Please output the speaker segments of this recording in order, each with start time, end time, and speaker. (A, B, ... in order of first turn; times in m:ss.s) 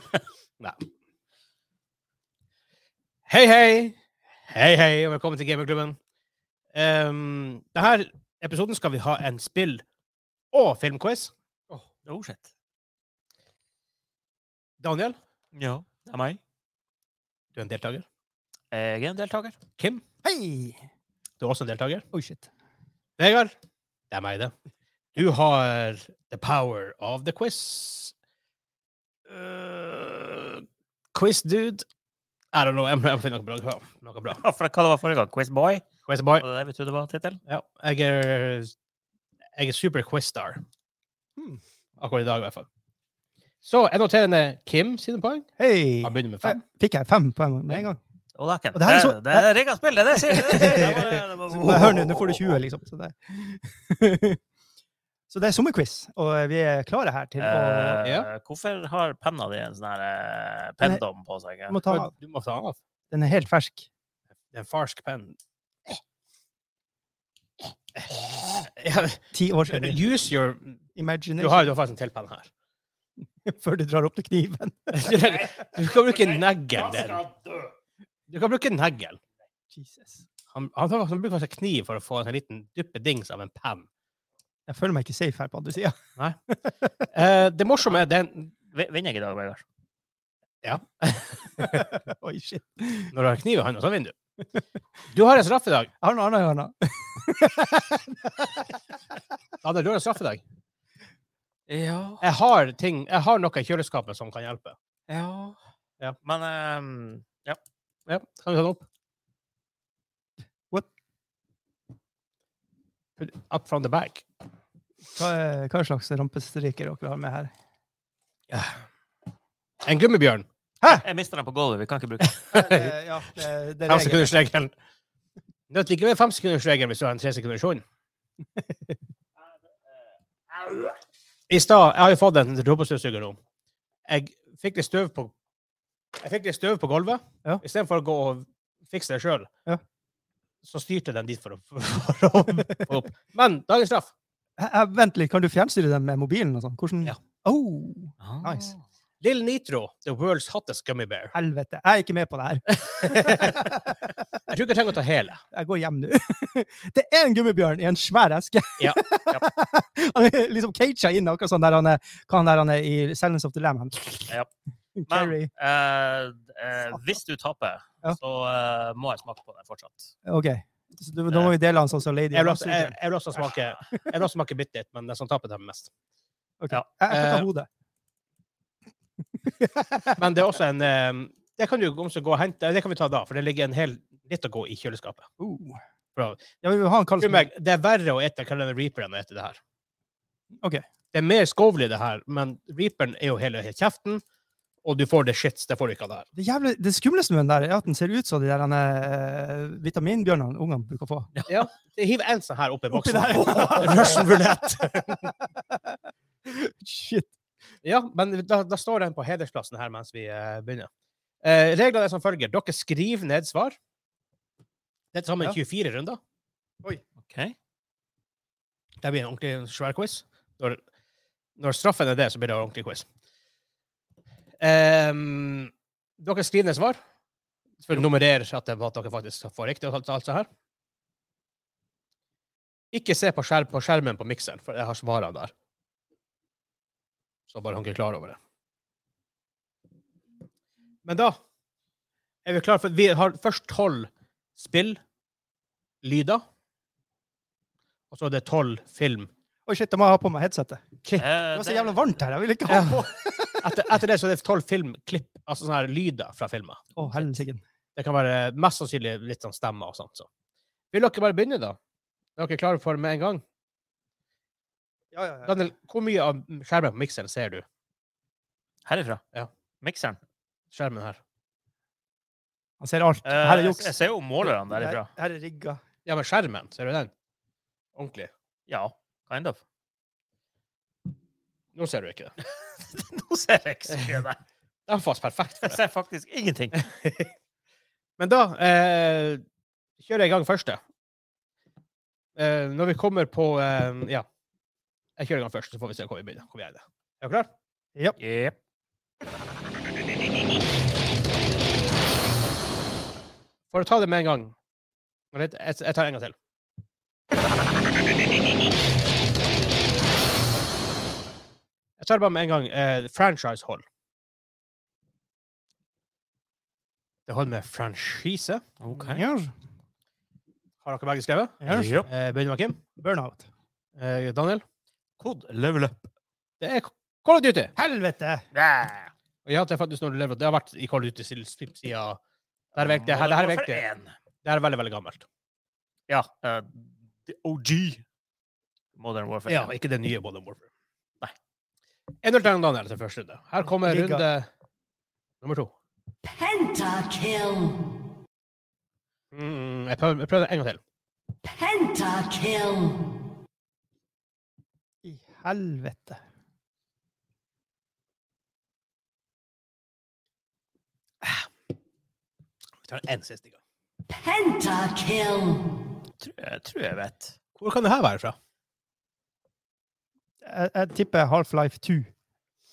0:03.3-0:04.0 A
0:04.5-0:06.0 A
0:06.8-0:09.8 A
0:10.5-0:11.3 A
0:11.7-0:12.5 B
0:14.8-0:15.2 A
0:15.5-0:16.4 B
0:17.6-0:18.0 A
0:18.7-0:19.6 B
0:19.8-0:20.0 A
0:20.2-0:20.8 C
0:21.4-0:22.1 A
0:22.1-0:22.5 C
0:23.2-0:23.5 A
0:24.1-0:24.5 A
0:25.2-0:28.1 A
0:29.3-0:30.6 A
0:31.1-0:31.9 A
0:32.5-0:34.4 A
0:34.4-0:35.9 B
0:36.1-0:36.4 A
0:36.4-0:37.4 B
0:37.5-0:38.7 A
0:39.6-0:40.6 A
0:42.0-0:42.7 A
0:43.6-0:45.5 A
0:45.6-0:48.0 C
0:46.0-0:46.6 A
0:48.4-0:52.5 B
0:48.7-0:49.5 C
0:50.3-0:54.4 C
0:55.3-0:58.0 C
0:57.4-1:01.8 B
0:58.0-0:58.3 A
1:01.7-1:02.1 C
1:01.9-1:02.8 A
1:03.1-1:03.9 C
1:04.5-1:05.4 A
1:08.0-1:10.8 A
1:09.3-1:10.1 C
1:11.0-1:11.7 C
1:11.4-1:12.5 A
1:13.4-1:15.2 C
1:14.9-1:17.2 A
1:16.0-1:17.7 B
1:18.3-1:19.2 A
1:19.7-1:20.2 C
1:20.5-1:23.9 A
1:24.7-1:26.0 C
1:26.5-1:27.1 C
1:27.1-1:28.5 A
1:28.7-1:29.6 B
1:30.6-1:31.8 A
1:31.6-1:33.1 C
1:33.1-1:34.2 A
1:35.1-1:35.9 A
1:36.0-1:38.8 C
1:39.6-1:40.4 A
1:41.7-1:42.2 B
1:42.2-1:44.8 A
1:45.1-1:45.6 B
1:46.2-1:47.6 B
1:48.1-1:48.8 A
1:53.2-1:54.2 A
1:55.2-1:57.5 C
1:58.5-1:58.8 A
1:59.8-2:00.5 A
2:00.9-2:02.4 B
2:02.4-2:02.9 A
2:02.5-2:04.4 C
2:03.9-2:04.7 A
2:05.7-2:07.8 A
2:11.5-2:13.4 A
2:14.1-2:15.3 A
2:16.2-2:19.5 A
2:20.6-2:24.1 A
2:22.6-2:23.0 C
2:24.6-2:28.7 C
2:28.2-2:28.8 B
2:29.2-2:31.3 A
2:31.3-2:34.2 C
2:32.8-2:33.7 A
2:34.5-2:35.4 A
2:35.5-2:44.4 C
2:45.0-2:45.5 C
2:45.1-2:50.1 B
2:50.2-2:52.9 C
2:52.3-2:55.9 A
2:56.6-2:57.7 C
2:57.1-2:57.5 A
2:59.4-3:00.2 C
3:00.2-3:05.3 A
3:05.4-3:05.8 C
3:06.2-3:06.4 A
3:06.6-3:07.5 C
3:07.2-3:09.6 A
3:10.6-3:10.9 C
3:11.1-3:14.2 A
3:14.8-3:16.3 A
3:16.4-3:21.3 C
3:21.4-3:21.6 B
3:21.5-3:25.3 A
3:22.9-3:24.7 C
3:23.6-3:23.9 B
3:25.6-3:27.3 C
3:27.8-3:30.9 A
3:31.4-3:33.8 A
3:35.1-3:36.2 A
3:37.3-3:37.6 B
3:39.0-3:40.8 A
3:41.6-3:43.1 A
3:44.6-3:47.0 A
3:47.8-3:50.5 A
3:52.9-3:55.5 A
3:57.5-3:58.4 A
4:01.0-4:01.4 A
4:02.5-4:05.0 A
4:06.0-4:06.4 A
4:08.1-4:09.3 A
4:09.7-4:13.8 C
4:11.2-4:12.1 B
4:12.7-4:13.1 A
4:13.6-4:16.8 A
4:17.0-4:17.6 C
4:17.0-4:17.3 B
4:18.0-4:20.3 A
4:20.9-4:21.8 A
4:22.4-4:23.4 A
4:25.1-4:25.6 C
4:25.5-4:27.6 A
4:28.8-4:29.2 B
4:29.8-4:30.2 B
4:30.7-4:31.2 A
4:32.8-4:35.8 C
4:33.3-4:35.1 B
4:36.1-4:37.1 A
4:38.0-4:38.3 A
4:38.7-4:39.6 B
4:41.8-4:42.3 A
4:42.9-4:44.4 B
4:43.9-4:44.2 A
4:44.9-4:45.8 A
4:45.6-4:46.9 B
4:46.8-4:47.3 A
4:48.2-4:49.4 A
4:50.0-4:50.8 A
4:52.4-4:54.3 A
4:55.2-4:57.5 A
4:58.2-4:58.6 B
5:03.7-5:04.6 A
5:05.3-5:06.4 A
5:12.0-5:13.8 A
5:17.3-5:18.6 A
5:18.8-5:19.2 B
5:18.9-5:19.5 C
5:20.8-5:22.8 A
5:21.6-5:22.1 C
5:21.7-5:22.1 B
5:23.0-5:23.5 C
5:24.0-5:24.6 A
5:25.2-5:26.0 B
5:26.6-5:27.7 A
5:27.8-5:28.5 C
5:28.5-5:29.1 B
5:29.5-5:32.2 A
5:32.8-5:33.8 A
5:32.8-5:34.1 B
5:34.4-5:35.2 A
5:36.1-5:38.0 B
5:39.0-5:39.7 B
5:39.5-5:40.7 A
5:42.2-5:44.5 A
5:43.8-5:44.2 C
5:45.4-5:45.7 A
5:46.2-5:47.9 D
5:49.3-5:50.8 A
5:51.4-5:53.1 D
5:55.0-5:56.2 C
6:02.8-6:03.6 A
6:04.1-6:05.8 D
6:06.2-6:07.4 B
6:07.6-6:08.4 A
6:10.4-6:12.1 C